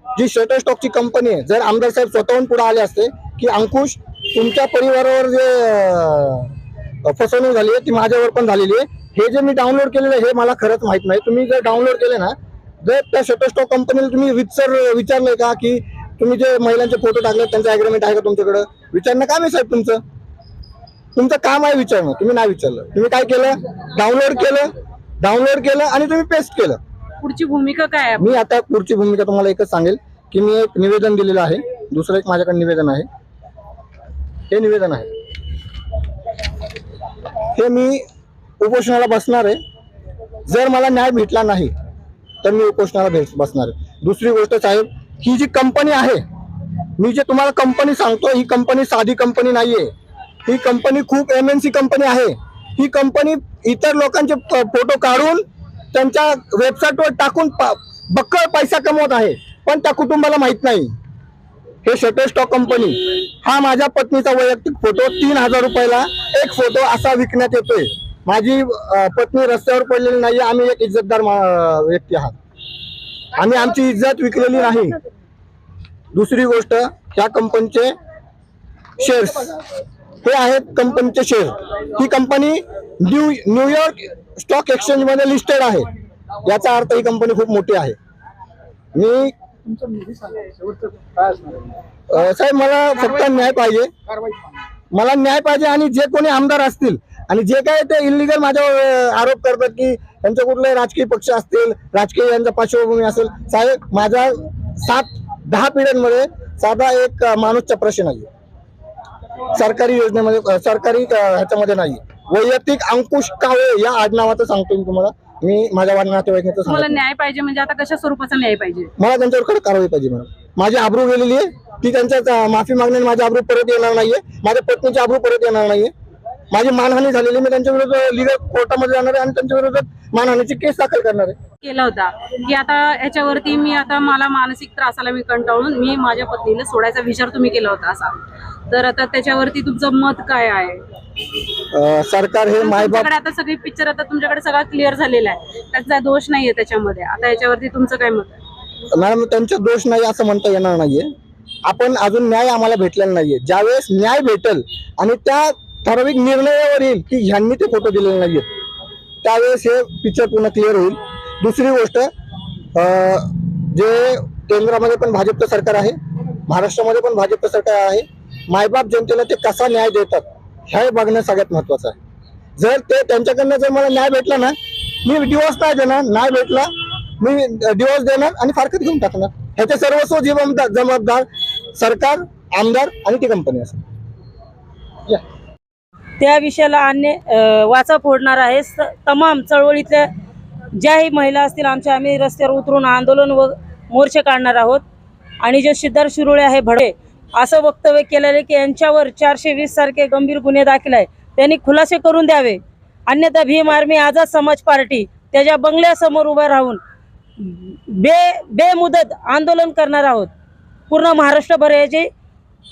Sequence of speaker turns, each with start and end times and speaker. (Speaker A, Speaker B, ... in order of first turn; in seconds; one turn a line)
Speaker A: 0.2-6.5
Speaker A: 7.0-20.0
Speaker A: 21.1-26.8
Speaker B: 27.2-28.3
Speaker A: 28.2-33.1
Speaker A: 34.5-35.1
Speaker A: 37.5-38.0
Speaker A: 38.6-39.6
Speaker A: 40.5-41.7
Speaker A: 42.4-46.2
Speaker A: 47.0-49.9
Speaker A: 50.5-60.9
Speaker A: 61.9-72.4
Speaker A: 73.4-75.0
Speaker A: 76.1-78.0
Speaker A: 79.0-79.5
Speaker A: 80.2-85.9
Speaker A: 86.4-88.0
Speaker A: 89.0-89.3
Speaker A: 92.1-93.9
Speaker A: 94.9-108.3
Speaker A: 109.5-117.0
Speaker B: 116.7-118.9
Speaker A: 119.0-125.9
Speaker A: 126.5-131.4
Speaker B: 131.6-140.8
Speaker A: 141.7-143.1
Speaker B: 142.6-148.4
Speaker A: 148.9-151.1
Speaker A: 151.6-158.5
Speaker A: 159.2-162.1
Speaker A: 162.8-172.0
Speaker A: 172.6-183.8
Speaker C: 186.2-190.1
Speaker C: 190.8-194.8
Speaker C: 195.4-206.8
Speaker C: 207.4-210.3
Speaker C: 210.9-212.1